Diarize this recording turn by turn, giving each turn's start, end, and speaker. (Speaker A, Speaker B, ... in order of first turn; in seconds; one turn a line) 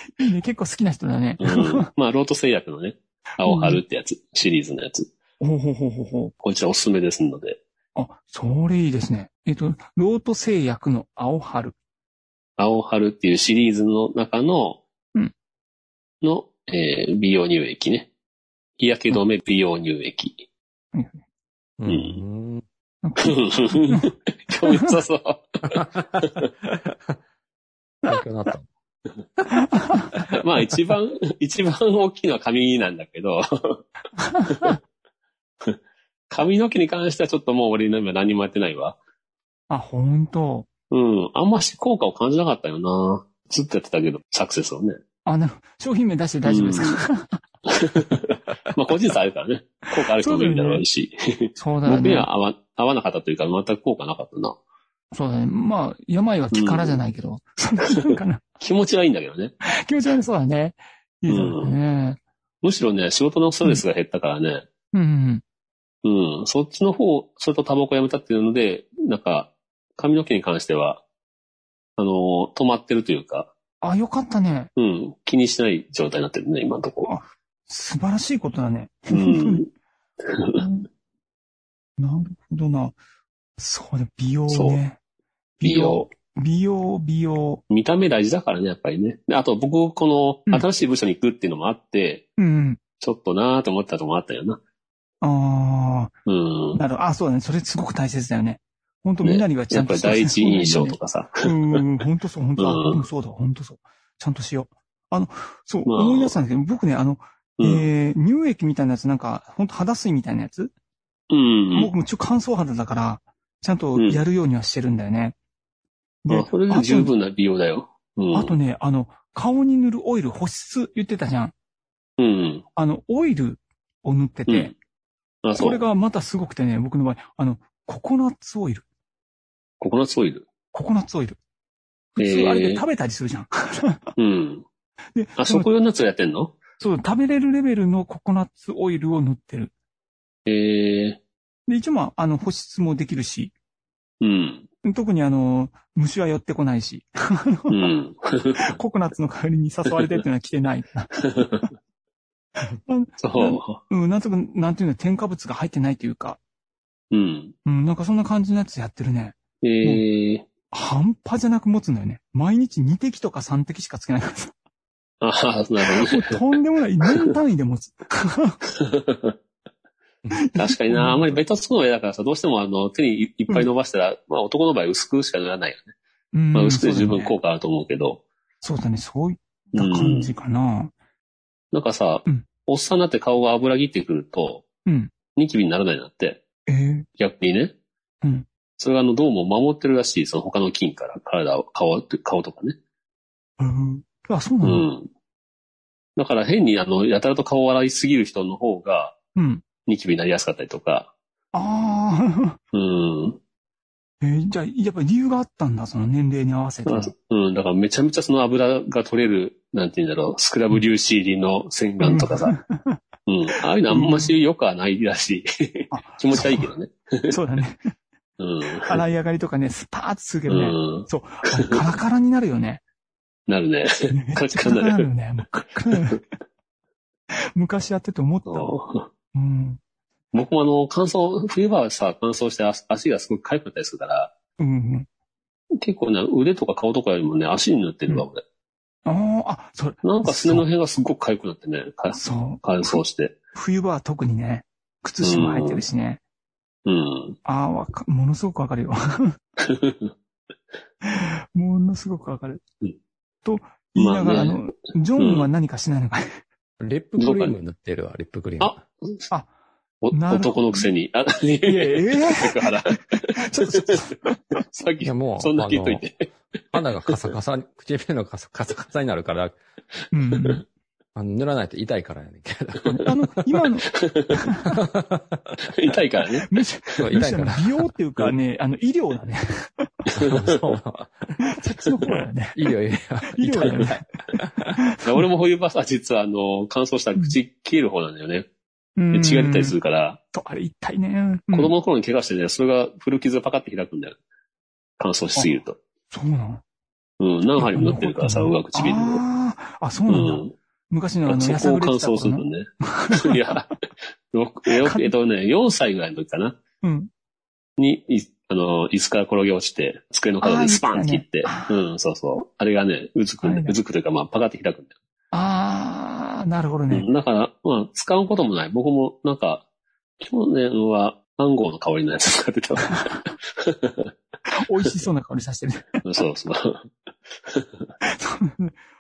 Speaker A: 0.2-1.9
Speaker B: 1.4-5.1
Speaker A: 3.4-3.8
Speaker A: 5.4-6.3
Speaker B: 6.4-7.6
Speaker A: 7.9-11.7
Speaker B: 12.6-14.8
Speaker B: 16.2-18.1
Speaker B: 18.8-20.4
Speaker A: 20.9-21.2
Speaker C: 21.8-22.6
Speaker B: 21.9-22.2
Speaker A: 23.0-24.1
Speaker B: 23.2-26.4
Speaker A: 24.6-24.9
Speaker C: 25.7-27.2
Speaker C: 28.1-28.6
Speaker A: 29.5-30.1
Speaker B: 30.3-33.8
Speaker A: 34.1-34.8
Speaker B: 34.5-34.7
Speaker B: 36.3-39.0
Speaker A: 39.7-40.7
Speaker B: 40.9-45.0
Speaker A: 45.2-47.4
Speaker B: 46.5-47.0
Speaker B: 47.7-54.6
Speaker A: 50.0-50.8
Speaker A: 51.6-52.3
Speaker A: 55.1-58.4
Speaker B: 56.5-57.0
Speaker B: 57.9-59.5
Speaker A: 59.6-62.2
Speaker B: 61.3-61.8
Speaker B: 62.6-64.6
Speaker A: 64.9-65.4
Speaker B: 66.0-71.0
Speaker B: 72.0-73.5
Speaker A: 73.8-74.7
Speaker B: 74.8-77.1
Speaker A: 77.0-79.6
Speaker B: 79.1-79.7
Speaker B: 80.2-80.6
Speaker A: 80.5-80.9
Speaker A: 82.0-83.0
Speaker A: 83.6-85.0
Speaker B: 84.5-84.8
Speaker A: 85.6-87.6
Speaker B: 85.6-86.0
Speaker B: 87.7-92.3
Speaker A: 92.4-92.8
Speaker B: 93.0-94.6
Speaker A: 95.2-96.1
Speaker B: 96.2-96.8
Speaker A: 96.7-110.7
Speaker B: 99.2-101.8
Speaker B: 102.6-103.0
Speaker B: 105.8-106.3
Speaker B: 107.6-107.9
Speaker B: 111.3-111.9
Speaker A: 111.7-115.3
Speaker B: 114.0-114.2
Speaker A: 116.2-117.1
Speaker B: 116.3-118.5
Speaker A: 118.3-121.5
Speaker B: 122.2-122.6
Speaker A: 122.8-124.7
Speaker B: 124.5-124.7
Speaker B: 125.4-125.8
Speaker A: 125.6-128.8
Speaker B: 129.8-130.4
Speaker A: 130.7-131.4
Speaker A: 132.2-134.1
Speaker B: 132.2-132.8
Speaker B: 134.2-134.6
Speaker A: 135.1-135.7
Speaker B: 135.4-136.6
Speaker A: 136.8-139.7
Speaker B: 140.5-141.2
Speaker A: 141.7-143.5
Speaker B: 144.2-144.7
Speaker A: 144.8-147.9
Speaker B: 147.7-148.8
Speaker A: 148.6-151.2
Speaker B: 151.2-151.7
Speaker A: 152.6-156.4
Speaker B: 153.2-153.8
Speaker B: 157.1-157.5
Speaker A: 157.6-160.0
Speaker B: 159.6-160.4
Speaker A: 160.7-164.5
Speaker B: 165.2-166.4
Speaker A: 165.9-168.6
Speaker B: 167.0-167.3
Speaker B: 168.8-169.3
Speaker A: 170.3-171.4
Speaker B: 170.6-175.9
Speaker A: 176.3-177.3
Speaker B: 176.5-178.2
Speaker A: 178.6-180.9
Speaker B: 179.7-180.3
Speaker B: 181.7-184.6
Speaker A: 184.8-185.1
Speaker B: 185.3-186.4
Speaker A: 186.7-187.1
Speaker B: 187.2-187.7
Speaker B: 188.8-192.8
Speaker A: 193.6-194.8
Speaker B: 194.6-195.1
Speaker B: 196.2-199.1
Speaker A: 199.3-199.6
Speaker B: 199.8-201.1
Speaker A: 201.5-202.6
Speaker B: 202.7-203.4
Speaker A: 204.2-207.1
Speaker B: 206.9-212.6
Speaker A: 212.0-213.0
Speaker B: 213.3-217.3
Speaker A: 213.9-214.3
Speaker A: 215.9-216.7
Speaker A: 217.3-217.9
Speaker B: 218.4-219.0
Speaker A: 218.8-222.8
Speaker B: 220.5-221.8
Speaker B: 223.5-225.1
Speaker A: 224.1-226.2
Speaker B: 225.9-226.2
Speaker A: 227.5-228.8
Speaker B: 228.5-229.1
Speaker A: 229.3-229.8
Speaker B: 230.3-234.3
Speaker A: 234.6-235.1
Speaker B: 235.8-238.4
Speaker A: 239.1-240.6
Speaker B: 240.0-243.3
Speaker A: 242.1-243.0
Speaker A: 243.5-246.2
Speaker B: 245.2-245.8
Speaker B: 246.8-247.4
Speaker A: 247.4-249.3
Speaker B: 249.6-250.1
Speaker A: 251.0-252.6
Speaker A: 253.4-256.4
Speaker B: 254.0-254.6
Speaker B: 255.2-255.5
Speaker C: 256.8-258.8
Speaker B: 257.2-257.5
Speaker B: 258.6-259.3
Speaker B: 260.0-264.1
Speaker A: 260.1-260.9
Speaker A: 261.6-264.6
Speaker B: 264.7-266.3
Speaker C: 265.0-266.0
Speaker C: 266.7-269.6
Speaker A: 270.1-270.6
Speaker C: 271.1-272.9
Speaker A: 272.8-274.7
Speaker B: 273.9-274.4
Speaker C: 274.7-275.6
Speaker B: 275.6-276.5
Speaker A: 276.4-279.9
Speaker C: 277.0-277.7
Speaker B: 280.1-280.6
Speaker C: 280.2-281.4
Speaker A: 281.4-282.6
Speaker C: 282.5-284.8
Speaker A: 283.3-285.2
Speaker B: 285.0-288.4
Speaker A: 289.0-289.7
Speaker B: 289.1-290.2
Speaker A: 290.3-291.7
Speaker B: 291.5-294.2
Speaker B: 295.0-295.8
Speaker A: 296.1-296.6
Speaker B: 297.2-299.2
Speaker A: 297.6-303.6
Speaker B: 300.1-300.5
Speaker B: 301.3-303.7
Speaker B: 304.3-306.6
Speaker A: 304.8-305.1
Speaker A: 306.8-307.1
Speaker B: 307.8-314.9
Speaker A: 310.4-311.7
Speaker A: 313.4-313.8
Speaker A: 315.3-317.1
Speaker B: 316.9-319.6
Speaker B: 320.2-324.1
Speaker A: 324.5-326.0
Speaker B: 326.0-326.9
Speaker B: 327.4-327.9
Speaker A: 328.0-328.7